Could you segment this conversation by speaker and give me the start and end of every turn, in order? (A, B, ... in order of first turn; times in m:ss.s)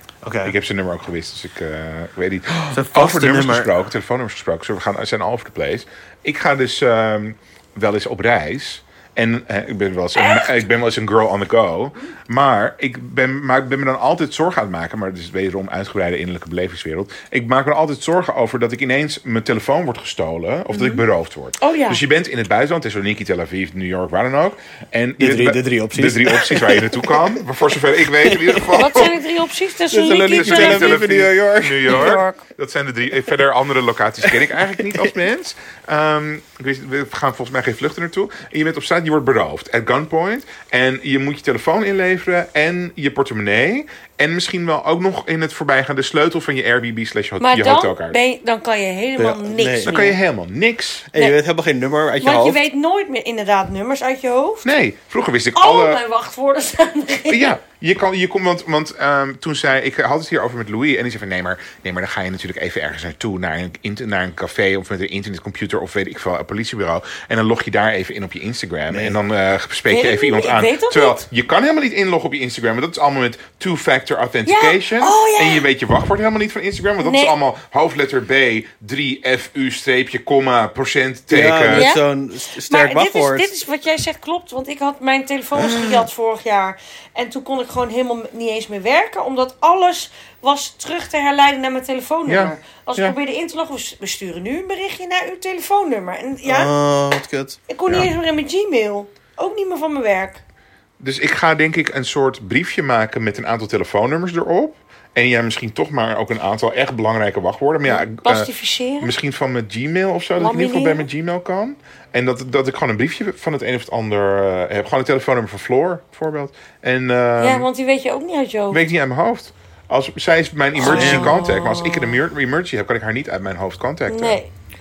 0:00.2-0:00.6 A
0:00.4-0:29.2 B
0:02.6-0:03.7 A
0:10.2-0:10.6 C
0:20.7-0:21.0 C
0:21.6-0:22.0 C
0:25.2-0:27.4 A
0:28.1-0:29.1 A
0:28.7-0:31.0 C
0:29.9-0:32.2 A
0:30.3-0:48.2 B
0:31.9-0:32.4 C
0:34.3-0:35.0 A
0:47.4-0:50.2 C
0:49.2-0:50.1 A
0:49.8-0:51.1 B
0:51.1-0:52.6 A
0:52.2-0:54.7 C
0:54.6-0:56.0 B
0:55.6-0:57.5 C
0:57.3-1:21.9 B
1:08.9-1:09.2 A
1:09.9-1:11.2 C
1:14.5-1:15.7 C
1:17.0-1:17.4 C
1:21.3-1:23.5 A
1:21.7-1:22.0 C
1:22.7-1:36.7 C
1:25.6-1:26.0 A
1:32.3-1:33.2 B
1:36.4-1:37.6 A
1:37.7-1:40.4 C
1:41.0-1:57.7 B
1:47.8-1:49.1 C
1:50.4-1:51.1 C
1:57.4-1:58.8 C
1:58.7-2:04.4 B
2:00.8-2:02.2 C
2:00.8-2:01.4 A
2:04.1-2:04.5 C